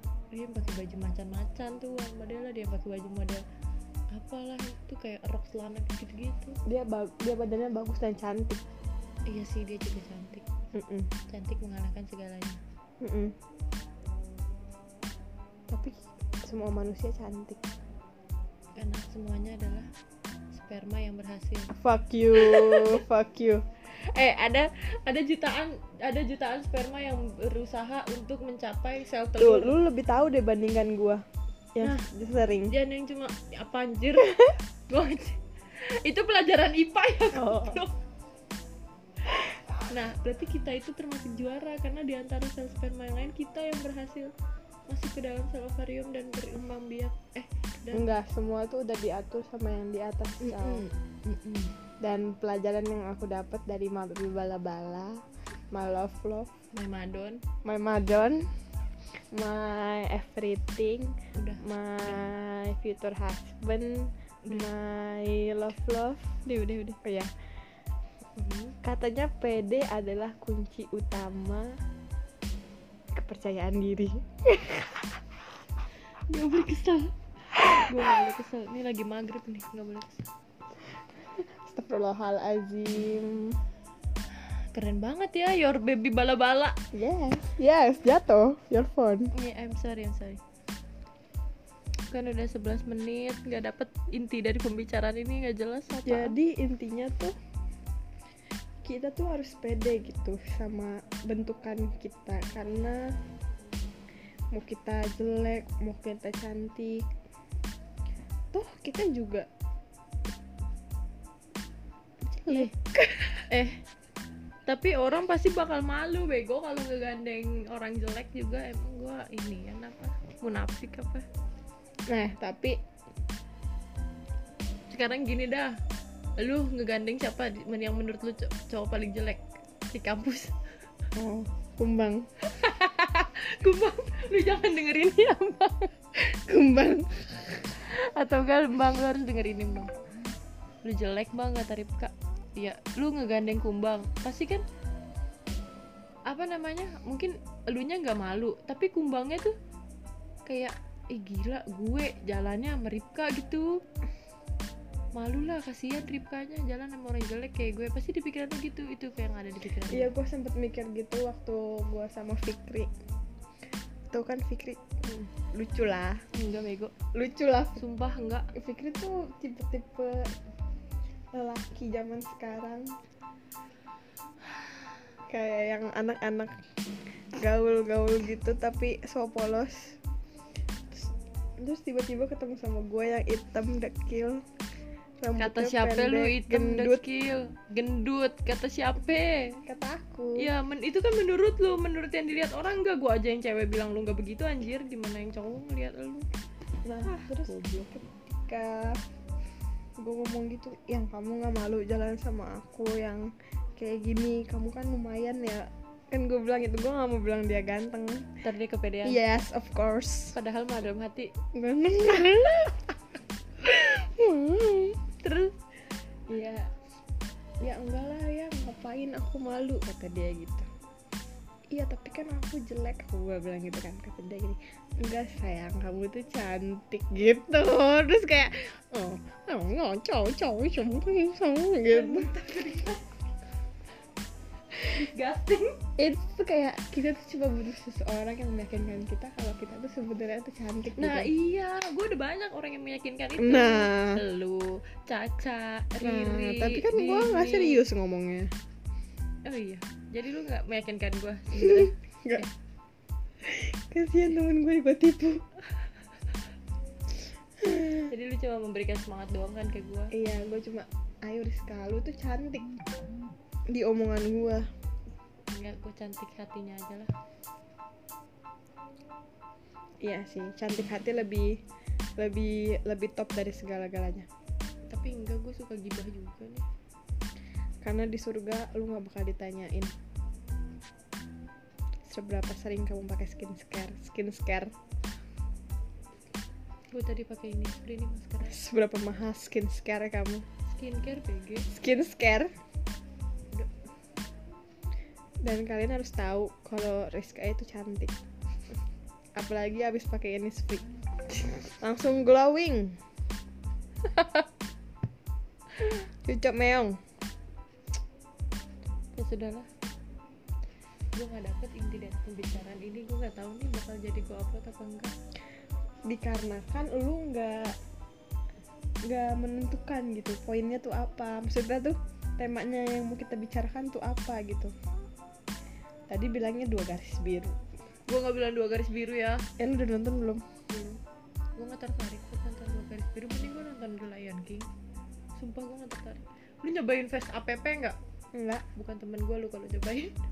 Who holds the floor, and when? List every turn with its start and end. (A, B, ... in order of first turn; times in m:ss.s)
0:00.3-0:03.4 A
0:04.1-0:06.6 A
0:06.7-0:08.6 B
0:09.3-0:10.4 A
0:10.7-0:11.1 B
0:11.3-0:12.6 A
0:13.0-0:13.3 B
0:15.7-0:17.6 B
0:18.8-0:19.9 A
0:20.5-0:21.7 A
0:21.8-0:23.6 B
0:22.4-0:23.0 A
0:23.9-0:29.8 A
0:29.4-0:31.2 B
0:31.8-0:32.7 B
0:32.7-0:38.0 A
0:37.3-0:37.8 B
0:39.9-0:44.3 A
0:44.9-0:48.1 A
0:47.9-0:50.8 B
0:50.4-0:51.7 A
0:52.0-0:55.2 B
0:55.7-0:56.5 B
0:56.7-0:57.4 A
0:57.6-0:58.4 B
0:59.3-1:07.3 B
1:01.4-1:02.3 A
1:08.4-1:08.8 A
1:08.8-1:11.7 B
1:13.1-1:15.1 B
1:16.3-1:17.1 A
1:17.6-1:20.2 A
1:21.5-1:23.6 B
1:24.7-1:26.8 A
1:26.9-1:29.3 B
1:29.3-1:30.4 A
1:32.1-1:36.4 A
1:36.1-1:37.4 B
1:38.8-1:43.1 B
1:44.5-1:47.0 B
1:48.5-1:49.5 B
1:52.3-1:53.4 B
1:52.5-1:52.7 A
1:53.5-1:53.8 A
1:54.7-2:01.3 A
2:02.1-2:02.8 B
2:04.9-2:05.8 A
2:06.4-2:10.5 A
2:11.2-2:12.3 B
2:12.5-2:15.9 A
2:16.2-2:17.6 B
2:17.8-2:19.9 A
2:20.8-2:24.6 A
2:26.3-2:29.5 A
2:30.5-2:33.8 A
2:35.2-2:40.1 A
2:39.9-2:42.9 B
2:44.1-2:46.2 B
2:46.3-2:46.9 A
2:47.1-2:47.8 B
2:47.8-2:48.5 A
2:48.6-2:50.4 B
2:51.3-2:53.0 B
2:55.3-2:56.6 B
2:57.3-3:00.0 B
3:00.9-3:04.4 B
3:05.2-3:07.0 B
3:05.4-3:09.6 A
3:09.7-3:10.5 B
3:10.4-3:16.3 A
3:16.8-3:19.0 B
3:17.0-3:18.0 A
3:20.0-3:28.3 B
3:28.4-3:29.2 A
3:29.0-3:30.4 B
3:30.3-3:31.3 A
3:31.6-3:33.0 B
3:33.6-3:35.0 B
3:35.2-3:35.6 A
3:36.3-3:36.7 B
3:37.6-3:40.7 B
3:41.7-3:52.3 B
3:51.9-3:53.2 A
3:54.8-3:55.8 A
3:56.0-4:01.3 B
4:01.0-4:07.8 A
4:03.4-4:04.2 B
4:06.0-4:08.5 B
4:09.4-4:12.5 A
4:11.6-4:12.4 B
4:13.4-4:15.4 B
4:17.6-4:18.1 B
4:17.9-4:20.1 A
4:20.1-4:22.7 B
4:23.7-4:24.7 B
4:25.5-4:27.1 A
4:30.0-4:31.6 B
4:32.2-4:34.3 B
4:34.9-4:36.7 A
4:37.8-4:39.9 B
4:42.1-4:44.7 B
4:46.9-4:48.6 A
4:48.4-4:50.5 B
4:50.7-4:51.7 A
4:51.7-4:52.5 B
4:55.4-4:58.1 B
4:59.4-5:03.0 B
5:04.1-5:04.4 A
5:05.8-5:07.0 B
5:09.2-5:09.7 A
5:11.1-5:15.1 A
5:16.1-5:17.7 B
5:19.1-5:24.7 B
5:26.1-5:27.6 B
5:28.1-5:29.4 A
5:29.6-5:30.4 B
5:30.7-5:31.0 A
5:31.6-5:34.7 A
5:35.4-5:38.0 A
5:38.3-5:38.6 B
5:38.8-5:40.1 A